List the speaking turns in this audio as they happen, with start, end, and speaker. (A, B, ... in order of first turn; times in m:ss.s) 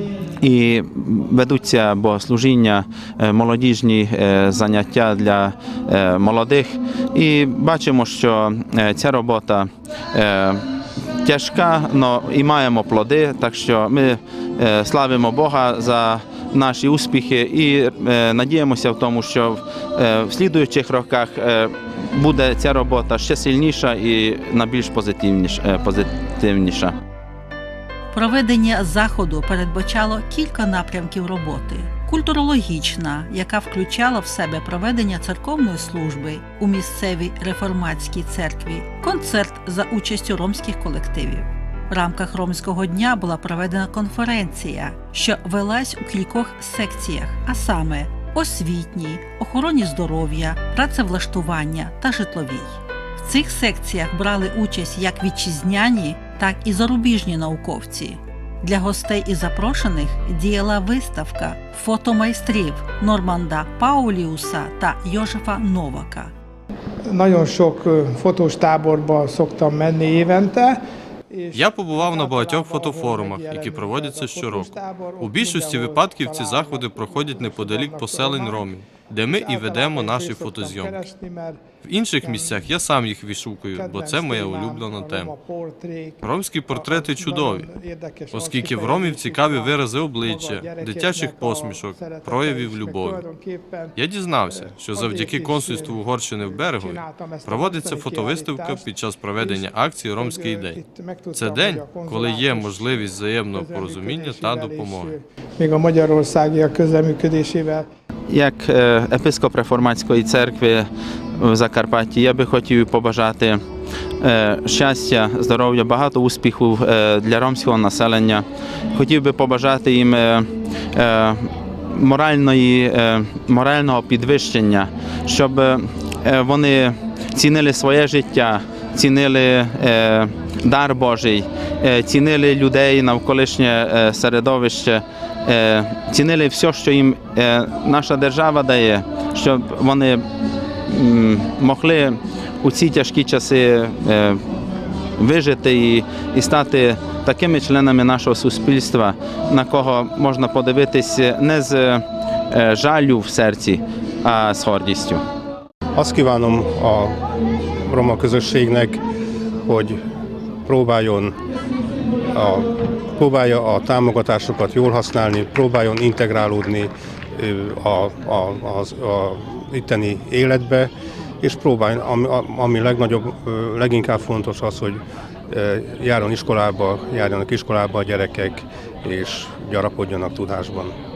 0:00.4-0:10.6 A
0:11.2-0:26.9 A
0:28.1-1:06.3 B
1:07.1-1:10.8 C
1:11.3-1:18.8 C
1:11.5-1:21.0 D
1:19.3-1:21.6 C
1:21.8-1:25.3 D
1:22.2-1:22.7 C
1:23.7-1:33.9 C
1:26.2-1:27.7 D
1:28.3-1:33.3 D
1:34.0-1:40.8 D
1:34.5-1:47.8 C
1:41.3-1:45.2 D
1:48.3-1:50.9 A
1:51.4-1:53.6 A
1:54.2-2:20.2 A
2:20.9-2:24.4 A
2:25.2-2:35.2 A
2:36.0-2:37.2 E
2:37.8-2:39.0 E
2:39.6-2:40.0 E
2:40.6-2:41.4 E
2:42.3-3:01.0 E